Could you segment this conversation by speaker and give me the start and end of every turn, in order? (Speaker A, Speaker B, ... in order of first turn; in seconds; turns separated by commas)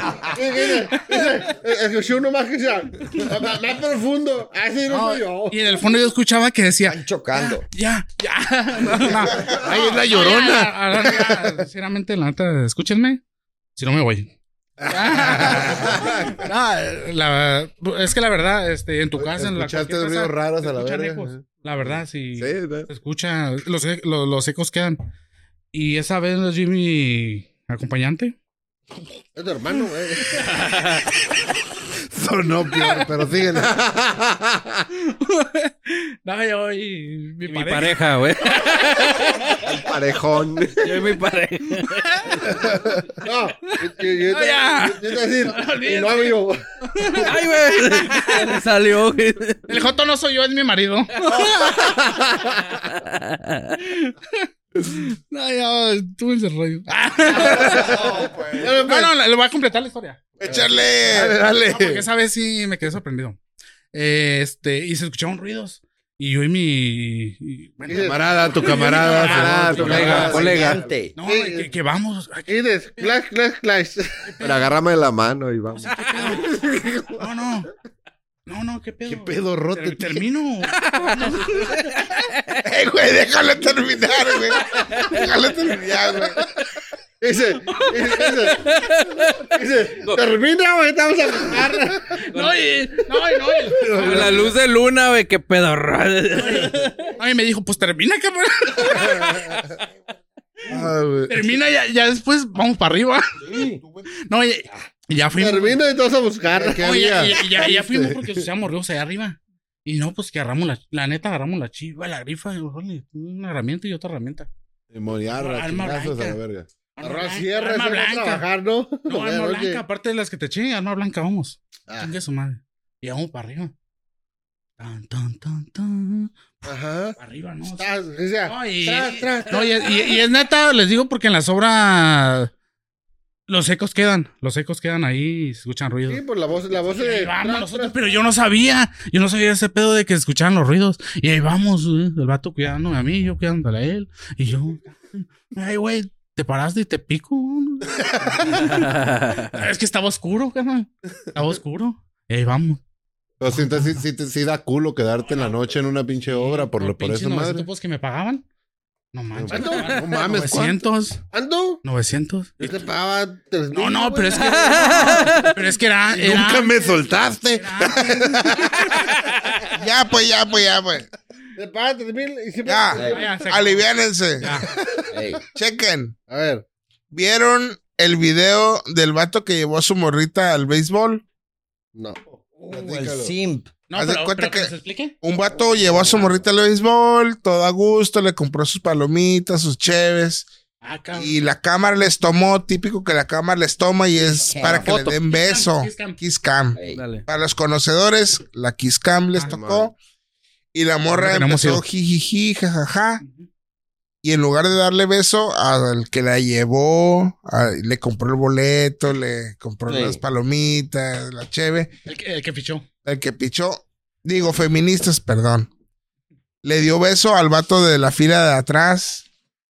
Speaker A: 0.3-5.8, Speaker B: 4.9-13.2, Speaker C: 6.9-7.6, Speaker D: 9.6-11.5, Speaker B: 13.8-14.3, Speaker B: 14.9-25.0, Speaker D: 15.2-15.9, Speaker D: 19.2-21.4, Speaker E: 22.4-22.9, Speaker B: 25.7-28.3, Speaker A: 29.4-30.5, Speaker D: 32.1-33.8, Speaker E: 33.8-34.5, Speaker B: 35.0-38.0, Speaker F: 37.5-39.4, Speaker E: 39.6-40.9, Speaker F: 40.8-42.0, Speaker B: 41.8-42.4, Speaker A: 43.2-46.6, Speaker B: 44.3-48.5, Speaker F: 47.2-49.7, Speaker B: 49.7-51.9, Speaker F: 51.3-52.0, Speaker F: 52.7-53.8, Speaker B: 53.8-58.1, Speaker A: 57.6-59.1, Speaker B: 58.8-60.2, Speaker G: 60.4-61.4, Speaker A: 60.4-60.8, Speaker D: 61.1-62.0, Speaker B: 61.7-63.4, Speaker B: 63.9-70.5, Speaker A: 67.8-69.2, Speaker D: 68.0-70.7, Speaker E: 69.2-70.8, Speaker F: 69.8-70.8, Speaker C: 70.2-71.1, Speaker B: 71.2-73.1, Speaker A: 71.2-71.7, Speaker A: 72.5-74.2, Speaker B: 74.3-74.7, Speaker E: 74.4-77.2, Speaker B: 75.8-76.5, Speaker B: 77.2-77.7, Speaker B: 78.5-82.1, Speaker D: 79.0-80.2, Speaker F: 80.8-82.6, Speaker G: 82.6-86.5, Speaker A: 87.2-88.7, Speaker B: 87.7-88.0, Speaker F: 88.7-89.4, Speaker A: 89.5-92.2, Speaker B: 92.3-94.5, Speaker F: 92.3-92.6, Speaker D: 93.8-94.5, Speaker F: 93.9-96.9, Speaker B: 96.4-99.6, Speaker A: 98.9-99.4, Speaker D: 100.7-101.4, Speaker B: 101.3-103.4, Speaker B: 104.2-105.8, Speaker A: 105.3-107.3, Speaker D: 106.5-108.5, Speaker B: 106.8-114.5, Speaker D: 114.9-116.7, Speaker B: 115.3-116.4, Speaker B: 117.0-118.4, Speaker A: 117.0-119.8, Speaker B: 119.1-123.7, Speaker B: 124.8-127.9, Speaker A: 126.7-127.2, Speaker A: 127.7-129.8, Speaker B: 128.4-132.5, Speaker B: 133.5-136.2, Speaker A: 136.1-138.0, Speaker B: 136.9-148.9, Speaker F: 148.7-149.6, Speaker B: 149.5-152.8, Speaker D: 153.4-157.7, Speaker B: 153.5-154.0, Speaker B: 156.3-158.4, Speaker B: 159.1-161.2, Speaker D: 159.4-160.8, Speaker A: 159.5-160.3, Speaker A: 161.3-161.8, Speaker B: 161.8-162.6, Speaker A: 162.6-165.5, Speaker B: 163.7-166.9, Speaker F: 164.3-165.6, Speaker D: 166.1-168.9, Speaker B: 167.6-168.6, Speaker G: 169.7-171.1, Speaker A: 171.6-173.3, Speaker G: 172.7-174.6, Speaker B: 173.0-173.8, Speaker B: 174.4-174.7, Speaker G: 175.5-176.2, Speaker A: 176.3-176.6, Speaker G: 177.1-181.2, Speaker A: 181.9-182.2, Speaker C: 182.6-183.8, Speaker D: 182.7-183.3, Speaker B: 183.9-185.2, Speaker G: 183.9-190.5, Speaker B: 190.8-191.4, Speaker G: 191.1-199.9, Speaker C: 194.5-195.0, Speaker F: 194.8-195.2, Speaker B: 195.1-196.2, Speaker C: 196.8-197.2, Speaker F: 196.9-197.2, Speaker E: 199.4-199.9, Speaker G: 200.7-203.2, Speaker B: 201.1-201.8, Speaker B: 203.2-203.5, Speaker G: 204.2-211.9, Speaker C: 209.9-210.2, Speaker B: 212.1-212.8, Speaker G: 213.1-215.7, Speaker G: 216.6-219.2